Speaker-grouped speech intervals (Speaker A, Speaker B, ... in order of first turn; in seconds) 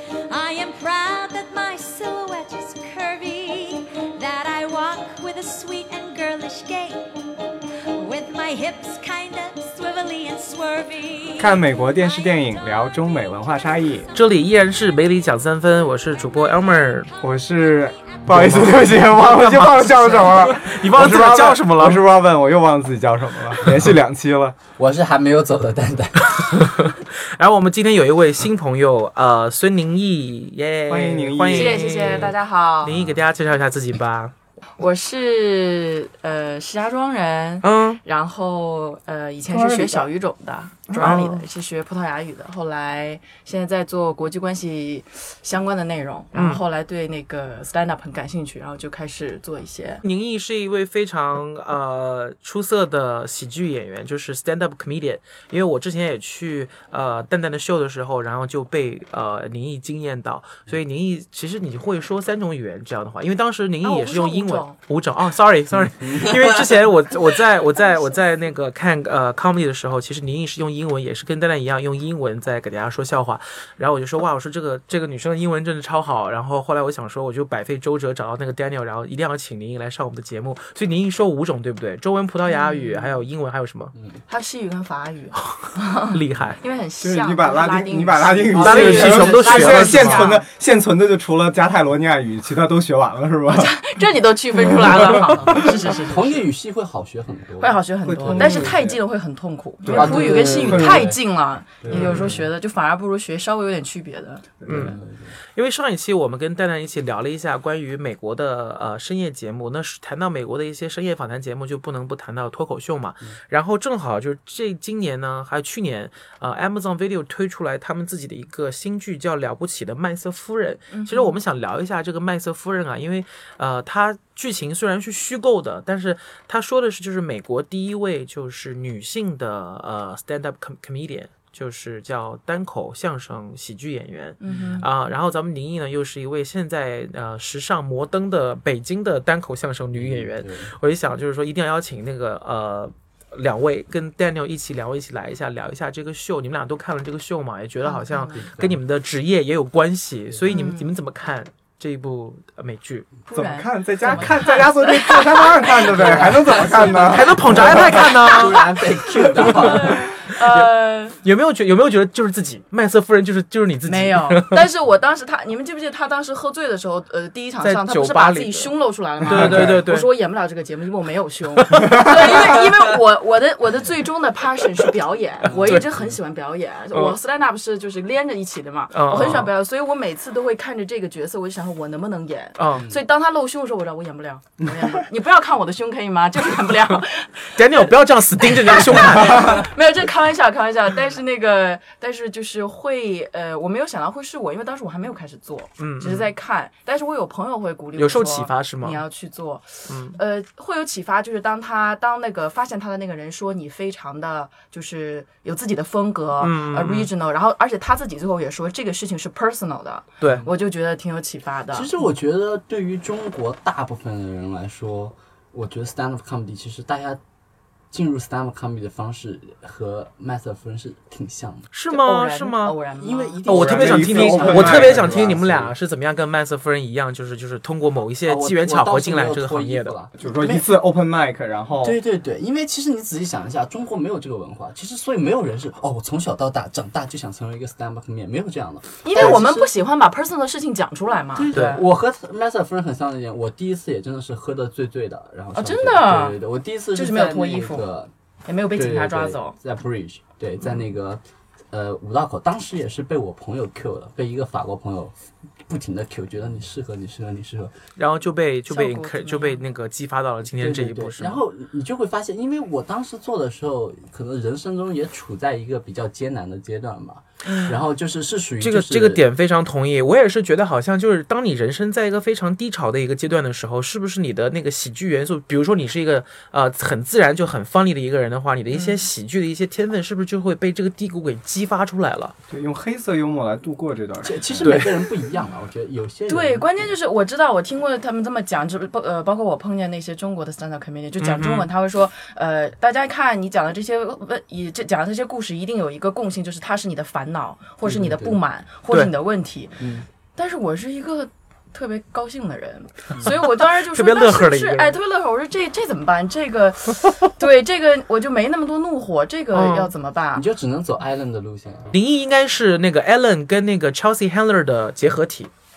Speaker A: 0.3-7.2, 7.9-12.3
Speaker B: 11.4-14.1, 17.2-24.6, 30.9-32.3, 39.6-40.0, 40.9-41.2, 87.0-93.8, 98.0-99.0, 99.8-101.1, 101.8-102.3, 104.6-104.9, 153.3-158.1, 223.5-225.3, 230.2-232.0, 282.5-284.8
Speaker C: 14.1-17.1, 18.3-22.1, 26.4-34.3, 37.6-38.0, 41.0-41.4, 46.3-46.6, 50.0-83.9, 85.4-86.6, 88.5-90.4, 101.9-102.3, 104.7-105.0, 105.5-153.1, 156.2-164.7, 167.6-170.1, 171.6-172.7, 175.5-175.9, 178.9-179.5, 182.6-182.9, 186.7-187.0, 187.6-189.7, 195.8-196.3, 198.0-199.0, 199.9-200.2, 206.4-207.1, 210.2-210.5, 221.7-222.8, 223.4-229.9, 241.5-241.8, 258.0-261.4, 268.6-282.3, 284.6-285.0, 291.2-291.7, 303.2-305.0, 309.5-309.9, 311.9-315.5
Speaker D: 24.7-26.8, 32.8-33.2, 65.9-66.9, 83.9-84.2, 88.5-89.1, 95.9-98.7, 99.9-101.2, 101.9-102.4, 104.7-105.3, 139.9-140.7, 148.3-148.8, 150.3-150.6, 154.1-154.3, 155.9-160.0, 175.4-176.2, 182.7-183.0, 210.2-210.5, 211.7-217.2, 217.9-221.7, 223.0-225.7, 228.2-230.7, 231.8-239.7, 241.3-248.1, 248.7-255.1, 255.7-257.8, 260.6-269.2, 284.2-286.9, 297.8-298.4, 299.8-300.1, 310.3-311.9
Speaker E: 31.5-32.9, 34.8-50.0, 63.8-64.8, 82.5-83.2, 84.3-90.5, 93.5-96.4, 97.6-104.5, 120.9-121.4, 134.4-134.9, 147.8-148.4, 150.5-150.9, 153.3-156.8, 158.2-161.2, 163.8-211.9, 221.9-223.4, 239.0-241.8, 245.5-246.4, 246.9-247.8, 248.4-249.6, 258.7-259.6, 267.4-267.8, 278.7-279.0, 286.3-299.8, 300.3-310.4